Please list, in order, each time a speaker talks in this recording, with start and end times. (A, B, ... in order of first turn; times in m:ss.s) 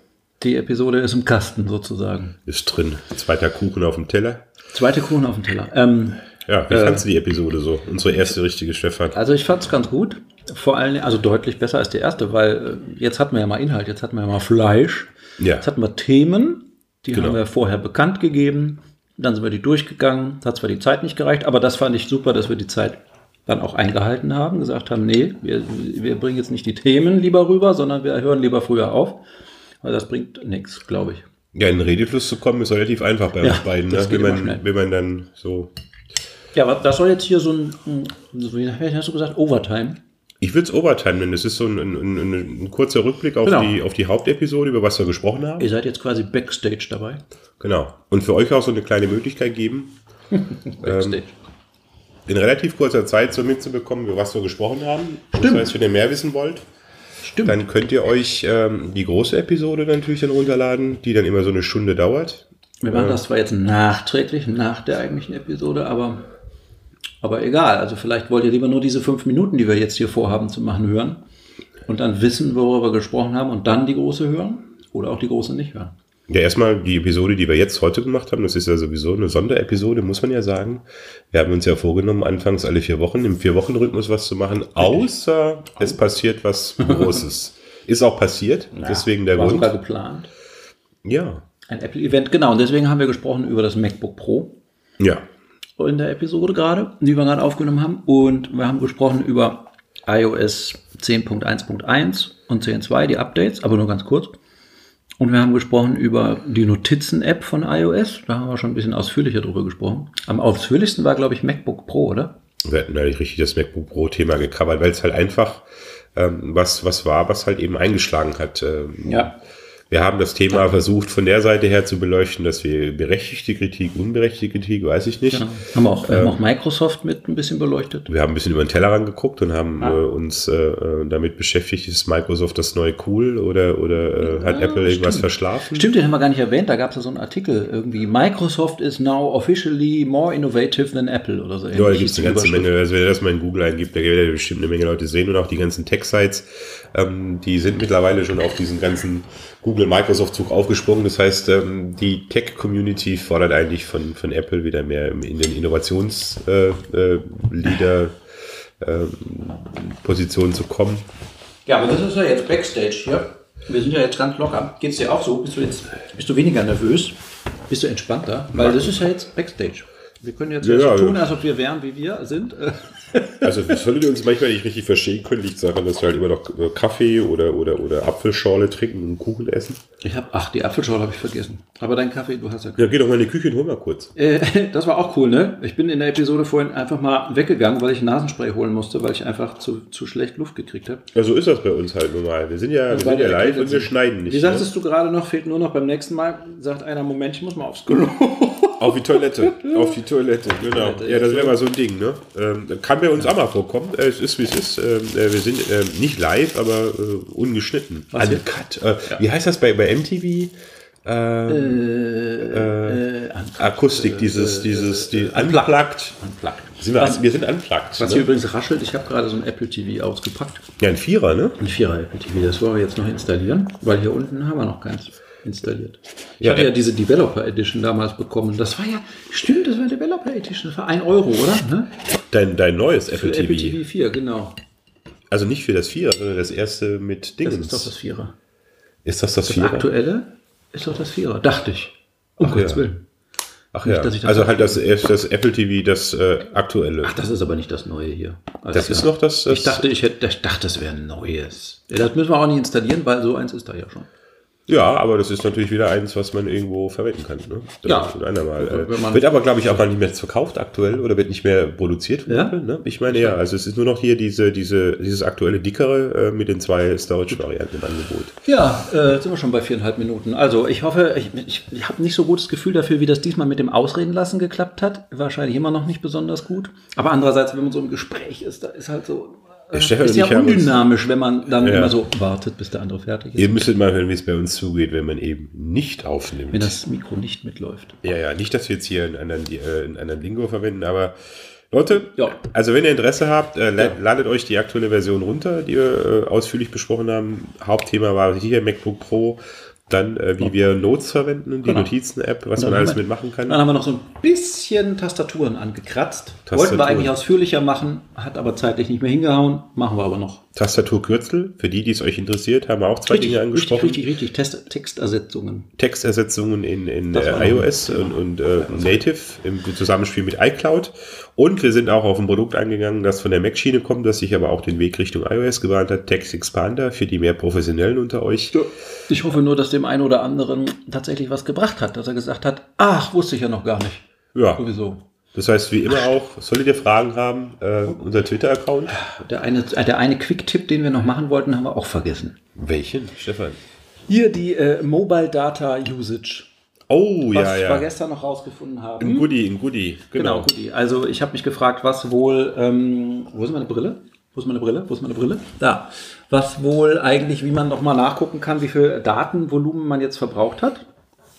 0:00.4-0:02.4 A
0:02.5-0:04.4 B
0:04.7-0:07.1 A
0:06.5-0:09.2 B
0:09.1-0:29.2 A
0:15.4-0:15.7 B
0:17.1-0:17.4 B
0:29.8-0:31.2 A
0:31.6-0:35.7 B
0:33.4-0:34.6 A
0:36.6-0:40.0 A
0:40.4-0:45.7 B
0:43.4-0:43.8 A
0:45.6-0:47.2 A
0:47.6-0:50.0 B
0:50.4-0:51.4 A
0:50.8-0:51.2 B
0:52.3-0:56.6 B
0:55.4-0:55.7 A
0:57.2-0:57.6 A
0:57.4-1:03.2 B
1:02.8-1:06.3 A
1:07.2-1:11.2 A
1:11.9-1:15.9 A
1:16.3-1:29.7 B
1:26.8-1:27.2 A
1:28.7-1:30.3 A
1:31.0-1:31.4 B
1:31.7-1:34.5 A
1:35.8-1:44.4 A
1:45.2-1:52.3 A
1:52.6-1:59.3 B
1:59.0-1:59.3 A
1:59.9-2:05.5 B
2:05.3-2:08.1 A
2:06.0-2:06.4 B
2:08.1-2:15.9 B
2:14.2-2:22.7 A
2:21.7-2:38.2 B
2:38.8-2:41.1 B
2:41.7-2:53.7 A
2:48.5-2:49.0 B
2:50.6-2:51.3 B
2:53.4-2:59.8 B
3:00.0-3:02.9 A
3:02.8-3:04.1 B
3:04.2-3:11.0 A
3:11.2-3:14.7 B
3:12.9-3:19.8 A
3:18.8-3:31.8 B
3:20.6-3:21.6 A
3:28.1-3:28.4 A
3:31.5-3:37.2 A
3:32.4-3:33.0 B
3:33.6-3:36.2 B
3:36.8-3:38.3 B
3:38.0-3:40.6 A
3:40.8-3:41.6 B
3:41.6-3:51.9 A
3:46.4-3:46.7 B
3:52.3-3:53.8 B
3:53.1-3:54.6 A
3:55.3-3:57.9 B
3:57.4-3:58.3 A
3:59.0-3:59.9 B
3:59.4-4:03.0 A
4:02.4-4:02.8 B
4:03.7-4:07.2 B
4:03.8-4:04.8 A
4:07.0-4:14.1 A
4:08.7-4:09.8 B
4:14.7-4:28.4 B
4:17.8-4:19.3 A
4:22.3-4:22.6 A
4:23.1-4:23.4 A
4:28.4-4:43.7 A
4:39.7-4:40.8 B
4:41.6-4:42.0 B
4:43.4-4:46.8 B
4:46.5-4:48.0 A
4:48.0-4:51.1 B
4:51.7-5:03.6 B
4:52.2-4:52.4 A
5:01.6-5:01.9 A
5:02.6-5:10.4 A
5:06.5-5:07.2 B
5:10.6-5:14.1 B
5:13.1-5:15.7 A
5:15.8-5:28.6 B
5:17.1-5:19.0 A
5:28.5-5:35.0 A
5:34.4-5:34.6 B
5:35.3-5:39.0 B
5:38.9-5:42.4 A
5:42.6-5:43.6 B
5:44.1-5:46.5 A
5:46.9-5:47.9 B
5:47.3-5:49.3 A
5:49.0-5:50.5 B
5:50.1-6:00.8 A